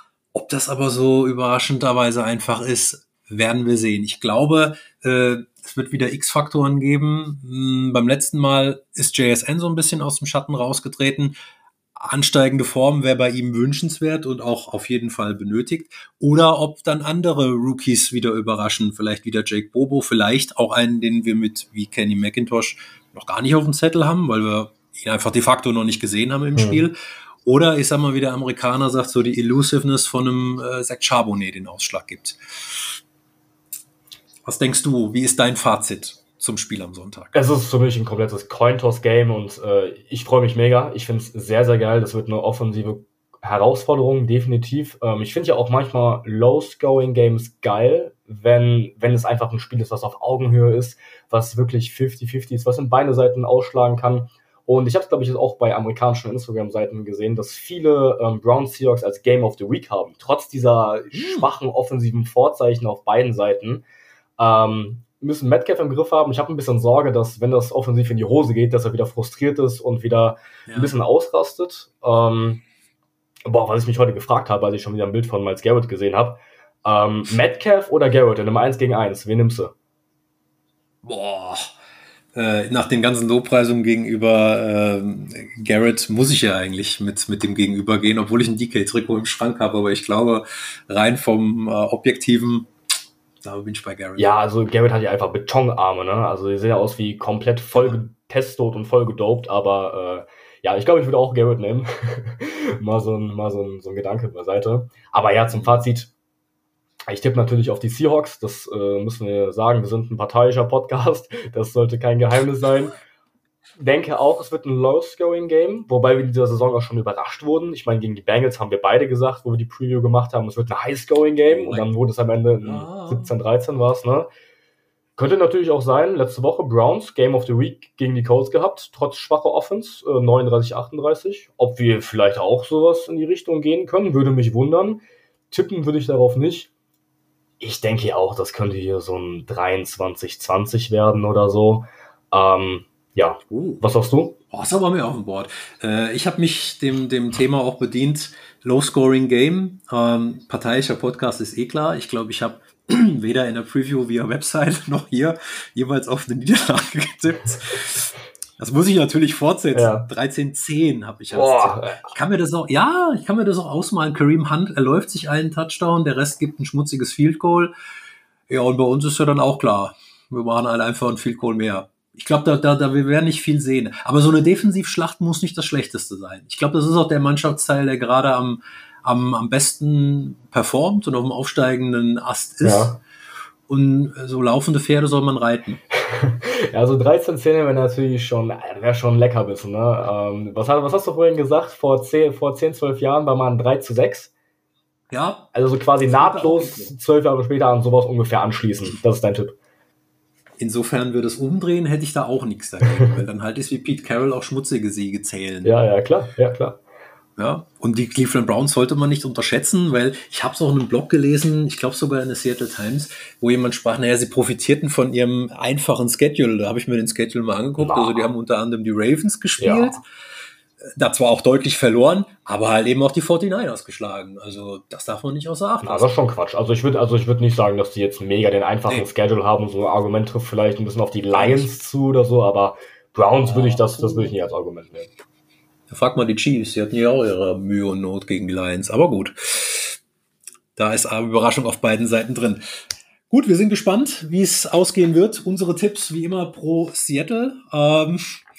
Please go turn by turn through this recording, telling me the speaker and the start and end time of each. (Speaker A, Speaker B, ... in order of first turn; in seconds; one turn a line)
Speaker A: 0.3-11.3
Speaker A: 12.0-33.0
Speaker B: 26.6-26.8
Speaker A: 34.5-37.4
Speaker B: 37.3-63.8
Speaker A: 61.1-61.5
Speaker B: 64.4-72.6
Speaker A: 70.7-70.9
Speaker B: 73.5-79.7
Speaker A: 81.0-81.7
Speaker A: 82.3-92.7
Speaker A: 93.4-94.3
Speaker B: 94.2-106.1
Speaker A: 105.5-105.8
Speaker B: 107.1-113.0
Speaker B: 113.8-124.3
Speaker A: 121.5-121.9
Speaker A: 122.6-123.3
Speaker B: 125.2-136.7
Speaker B: 137.6-144.4
Speaker A: 143.5-143.8
Speaker A: 144.5-167.7
Speaker B: 159.7-160.1
Speaker B: 161.3-162.1
Speaker A: 168.5-183.0
Speaker B: 182.6-183.0
Speaker A: 183.7-185.8
Speaker B: 186.1-194.3
Speaker A: 195.1-195.5
Speaker B: 195.5-199.6
Speaker A: 196.1-196.9
Speaker A: 200.6-205.7
Speaker B: 202.8-203.2
Speaker B: 205.6-206.8
Speaker A: 207.4-220.0
Speaker B: 217.8-218.3
Speaker B: 219.6-220.0
Speaker A: 220.8-226.1
Speaker B: 225.8-235.1
Speaker A: 231.3-231.7
Speaker A: 233.4-234.4
Speaker A: 235.9-240.0
Speaker A: 240.8-242.6
Speaker A: 243.3-248.4